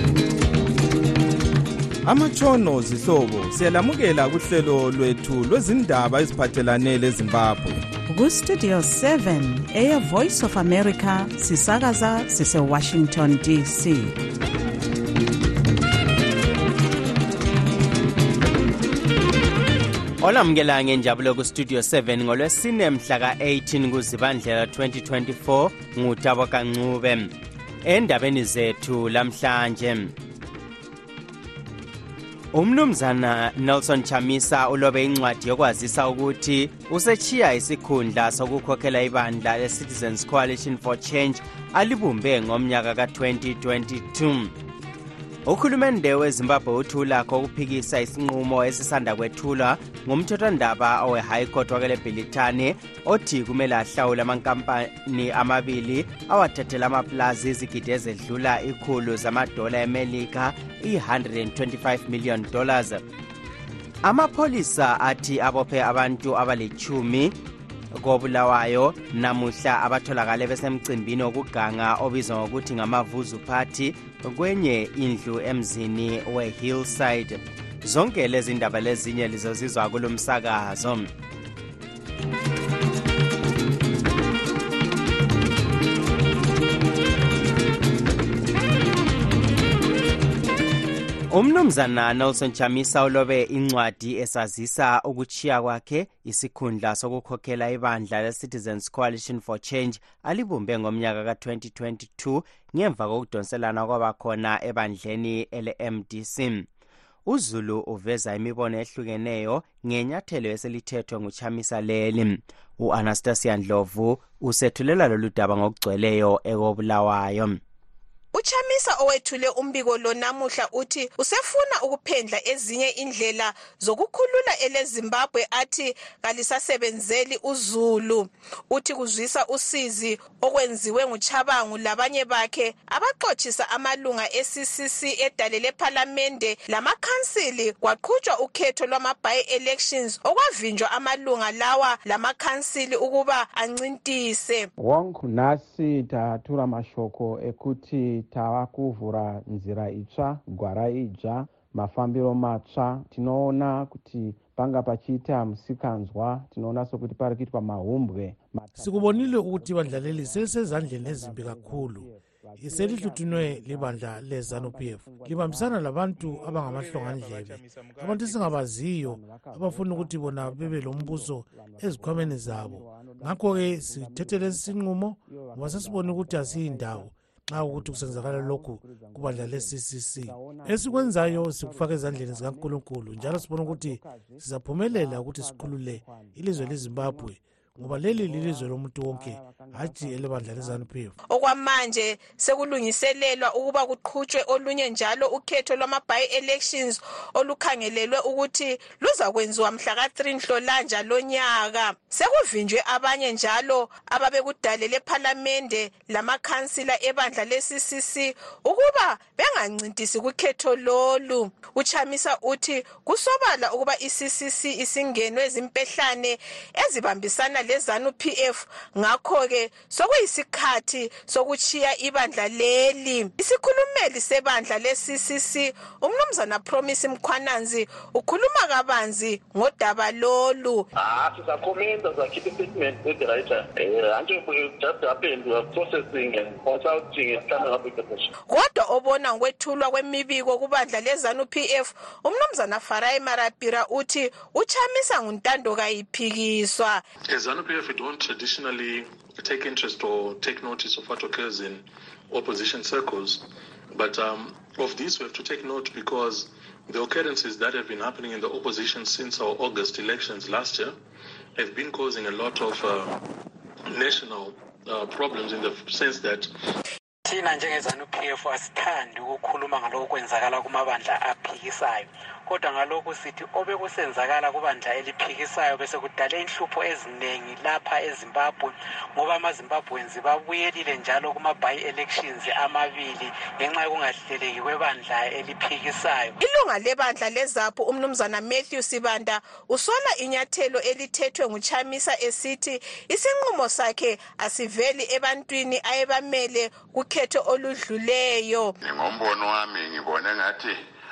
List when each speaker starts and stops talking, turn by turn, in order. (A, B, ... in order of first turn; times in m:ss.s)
0:02.0-0:07.8 A
0:08.1-0:14.1 B
0:20.2-0:27.3 C
0:27.8-0:30.1 C
0:32.5-0:44.5 C
0:45.4-1:03.0 C
1:04.0-1:07.3 C
1:07.9-1:21.1 C
1:31.3-1:46.7 C
1:47.2-1:57.6 C
1:58.3-2:24.7 D
2:24.8-2:46.1 E
2:38.8-2:42.1 F
2:42.6-3:11.1 F
2:49.0-2:54.8 E
2:55.3-2:57.1 E
2:57.7-3:10.9 E
3:11.3-3:50.9 D
3:51.0-3:58.3 G
3:58.5-4:07.0 D
4:07.3-4:21.0 H
4:21.6-4:23.2 H
4:23.9-4:26.5 H
4:27.2-4:46.4 I
4:46.4-4:58.7 D
4:58.8-5:00.8 J